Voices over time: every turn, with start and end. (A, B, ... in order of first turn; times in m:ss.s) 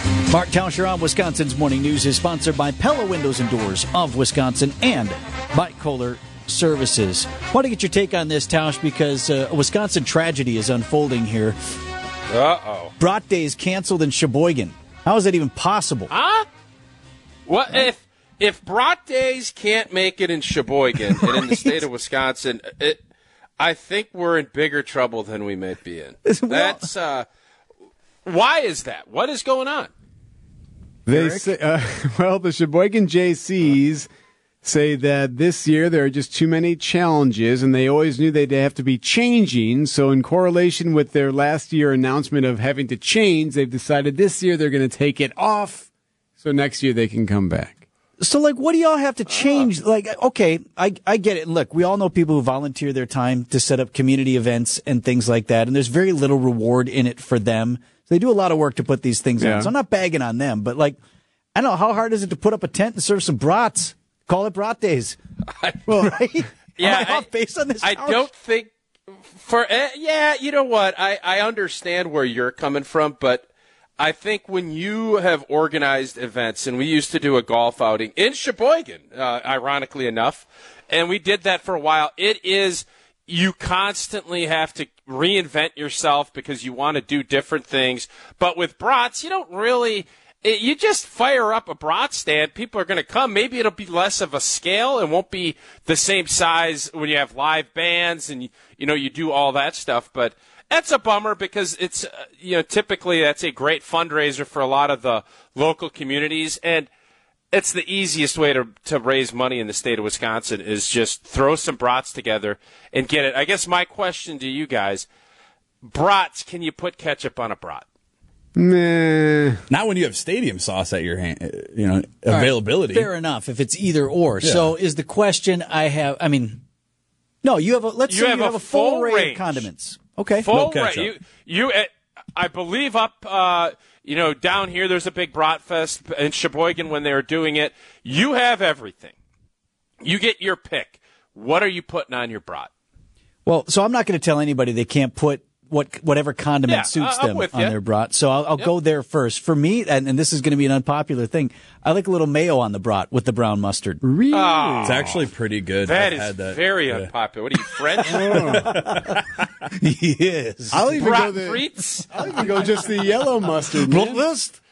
0:00.3-0:11.6 A
0:12.3-0:12.9 B
0:13.0-0:16.1 A
0:16.1-0:16.5 B
0:17.5-0:23.0 B
0:21.1-0:21.8 A
0:23.6-0:27.3 B
0:26.3-0:26.9 A
0:28.2-0:29.9 B
0:31.1-0:34.1 C
0:31.1-0:31.5 B
0:34.6-0:45.9 C
0:46.4-0:47.8 C
0:48.2-1:01.0 A
0:59.4-0:59.7 C
1:01.6-1:05.2 A
1:05.6-1:06.1 B
1:05.9-1:08.3 A
1:06.8-1:07.3 B
1:07.8-1:08.7 B
1:09.3-1:13.5 B
1:14.0-1:46.9 B
1:47.5-1:55.1 B
1:55.8-1:57.8 B
1:58.6-1:59.6 C
1:59.7-2:03.1 D
2:02.3-2:06.6 A
2:04.4-2:04.7 D
2:07.4-2:10.5 A
2:08.1-2:09.7 B
2:10.4-2:19.2 B
2:10.5-2:11.1 D
2:20.0-2:22.7 B
2:23.5-2:34.0 A
2:26.7-2:27.8 B
2:34.0-2:35.0 C
2:34.3-2:35.2 B
2:34.8-2:37.1 D
2:35.8-2:38.6 B
2:38.1-2:38.7 C
2:38.7-2:39.5 D
2:39.8-2:41.1 A
2:40.7-2:44.2 C
2:41.0-2:42.1 B
2:43.9-2:44.6 A